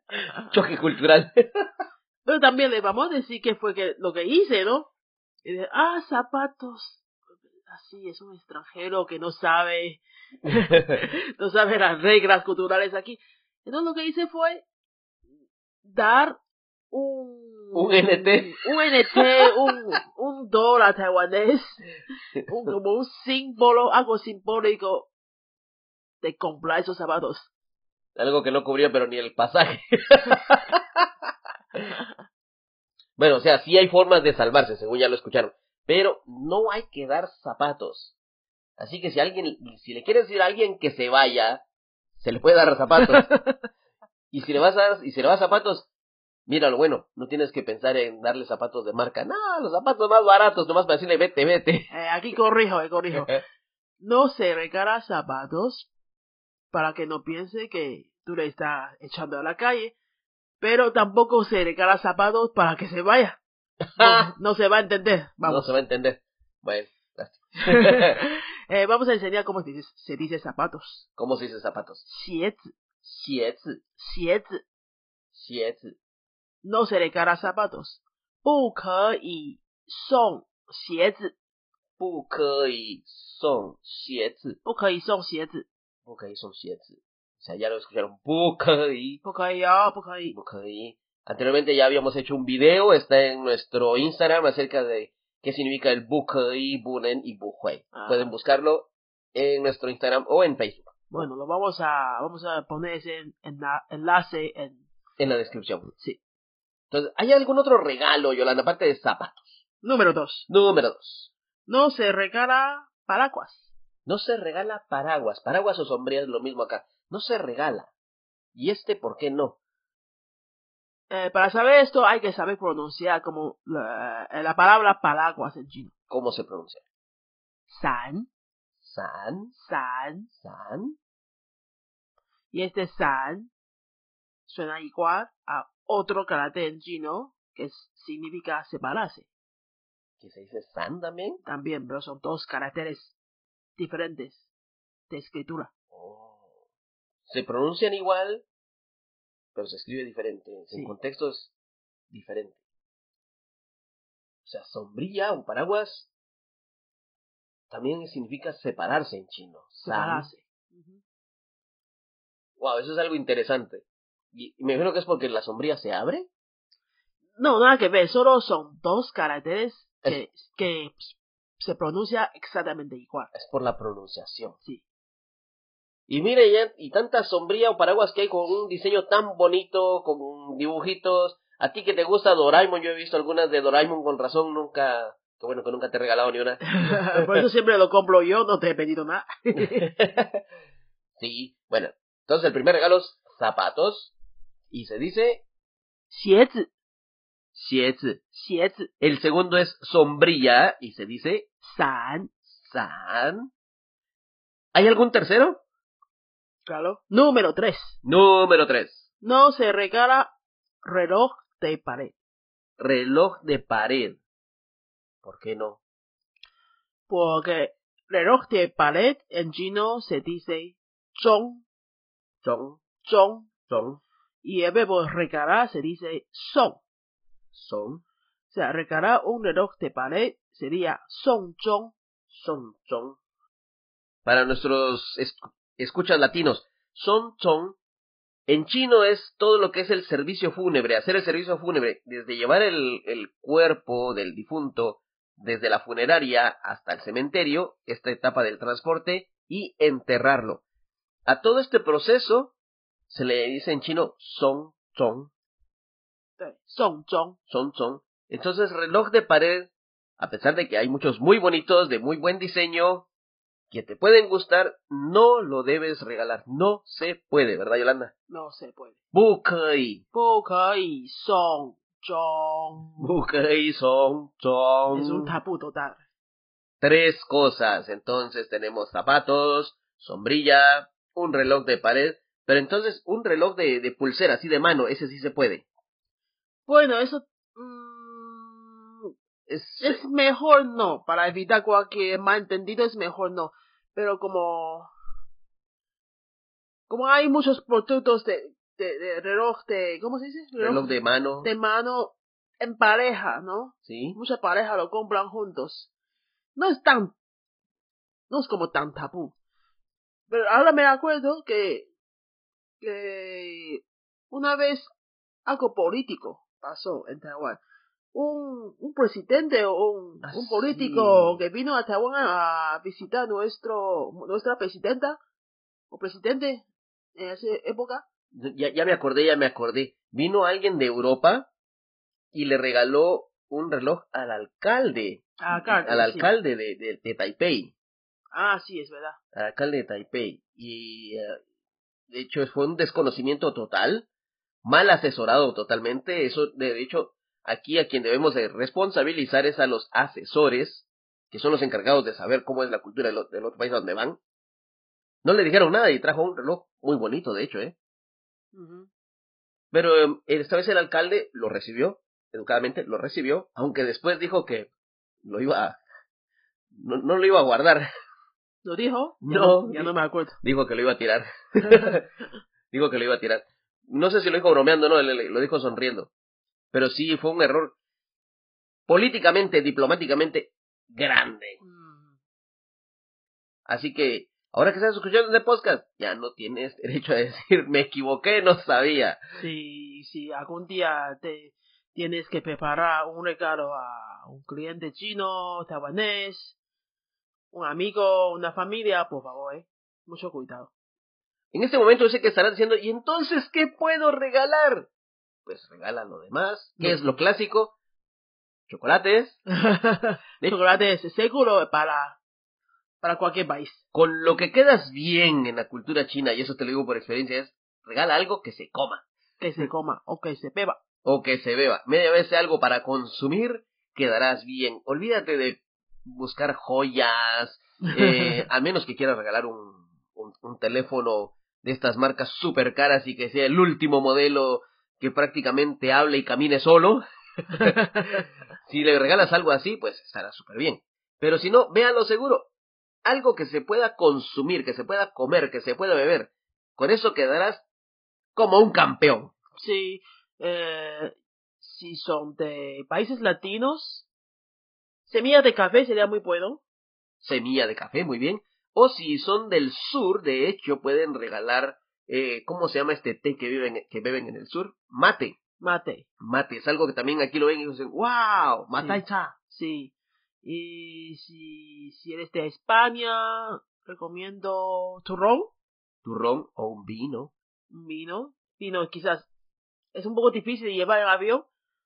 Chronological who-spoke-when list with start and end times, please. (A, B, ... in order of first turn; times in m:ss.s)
0:00.4-0:01.4 A
0:02.2-0:04.9 B
0:05.4-0:07.0 B
0:07.7-0:14.6 B
0:15.8-0:16.4 B
0:16.9-0:21.9 B
0:17.7-0:18.6 A
0:22.4-0:25.1 B
0:26.2-0:27.5 B
0:28.2-0:31.0 A
0:33.2-0:38.2 A
0:38.8-0:41.6 A
0:42.1-0:43.3 A
0:43.0-0:43.4 B
0:44.3-0:45.9 A
0:46.5-0:51.9 A
0:51.9-0:53.3 B
0:53.2-0:53.4 A
0:54.0-0:55.9 B
0:56.7-0:59.9 B
1:00.6-1:03.4 B
1:04.0-1:04.2 A
1:04.0-1:05.8 B
1:05.4-1:08.2 A
1:07.8-1:11.0 B
1:11.2-1:12.0 A
1:12.0-1:12.8 B
1:13.0-1:13.8 A
1:14.0-1:14.6 B
1:15.3-1:16.0 A
1:16.6-1:21.3 B
1:22.0-1:24.6 A
1:24.6-1:25.6 B
1:26.0-1:29.2 A
1:29.2-1:30.4 B
1:30.3-1:41.2 A
1:37.9-1:38.3 B
1:41.1-1:44.8 B
1:45.2-1:45.9 A
1:46.9-1:49.6 A
1:49.8-1:50.5 B
1:50.5-1:51.3 A
1:51.7-1:53.7 B
1:54.0-1:57.9 A
1:58.5-1:59.6 A
2:01.1-2:05.9 B
2:06.1-2:06.8 A
2:07.7-2:08.3 B
2:08.8-2:09.5 A
2:09.5-2:10.3 B
2:10.4-2:11.0 A
2:12.5-2:13.5 B
2:14.4-2:19.3 B
2:20.2-2:21.4 A
2:21.4-2:23.2 B
2:23.8-2:24.5 B
2:25.1-2:25.7 B
2:25.9-2:26.5 A
2:27.3-2:28.4 A
2:29.5-2:31.5 A
2:32.1-2:32.6 A
2:34.4-2:36.1 A
2:37.7-2:40.3 A
2:39.8-2:41.0 B
2:42.6-2:46.3 A
2:47.4-2:53.3 B
2:53.3-2:54.6 A
2:56.1-3:07.3 A
3:06.7-3:09.9 B
3:09.8-3:10.4 A
3:11.2-3:14.1 A
3:14.7-3:15.4 A
3:16.1-3:16.7 B
3:17.5-3:18.2 A
3:18.3-3:18.9 B
3:19.0-3:21.5 A
3:21.6-3:22.3 B
3:22.4-3:23.5 A
3:24.7-3:25.6 A
3:26.7-3:28.0 B
3:28.0-3:29.1 A
3:29.2-3:30.3 B
3:30.8-3:32.1 B
3:32.8-3:34.2 A
3:35.2-3:35.8 A
3:37.1-3:41.6 B
3:42.4-3:42.8 A
3:43.0-3:43.5 B
3:43.7-3:44.0 A
3:44.4-3:46.8 B
3:47.5-3:48.0 A
3:48.5-3:51.9 B
3:52.3-3:53.2 A
3:54.2-3:57.8 A
3:58.5-4:10.6 A
4:11.3-4:12.5 A
4:13.1-4:15.3 A
4:16.4-4:17.4 B
4:17.5-4:23.0 A
4:23.7-4:28.1 A
4:28.3-4:28.9 B
4:29.1-4:30.0 A
4:30.1-4:33.1 B
4:33.0-4:35.4 A
4:34.9-4:36.0 B
4:36.8-4:45.6 A
4:46.7-4:49.1 B
4:49.5-4:50.0 A
4:49.8-4:54.9 B
4:56.9-5:00.9 B
5:00.6-5:01.5 A
5:01.4-5:05.9 B
5:03.8-5:04.2 A
5:06.5-5:07.1 B
5:08.3-5:09.3 B
5:10.3-5:11.9 B
5:12.8-5:14.9 B
5:15.4-5:17.6 B
5:18.1-5:25.2 B
5:20.2-5:21.4 A
5:25.9-5:28.0 B
5:28.3-5:31.5 A
5:32.3-5:37.7 A
5:35.4-5:36.3 B
5:38.3-5:39.2 B
5:39.3-5:41.4 A
5:42.1-5:44.0 A
5:44.6-5:54.2 A
5:55.2-5:57.7 A
5:58.5-5:58.9 B
5:59.7-6:04.7 A
6:05.2-6:05.8 A
6:06.7-6:07.9 A
6:08.6-6:10.4 B
6:09.2-6:12.0 A
6:12.7-6:16.1 A
6:16.7-6:17.7 A
6:18.9-6:21.6 A
6:21.6-6:22.1 B
6:23.6-6:29.2 A
6:29.3-6:36.6 B
6:37.5-6:40.7 B
6:41.5-6:44.9 A
6:45.4-6:47.7 A
6:48.7-6:49.4 A
6:49.6-6:52.2 B
6:53.0-6:53.8 B
6:53.9-6:59.0 A
6:59.4-7:00.8 B
7:01.0-7:17.0 A
7:07.9-7:08.4 B
7:17.5-7:17.8 A
7:17.6-7:18.2 B
7:18.7-7:22.5 A
7:23.0-7:27.6 A
7:28.3-7:29.3 A
7:29.6-7:34.1 B
7:35.0-7:36.6 B
7:37.2-7:45.4 A
7:45.6-7:46.0 B
7:46.2-7:49.1 A
7:48.7-7:49.9 B
7:50.4-7:55.5 B
7:56.0-7:57.3 A
7:57.7-7:59.3 B
7:59.9-8:01.4 B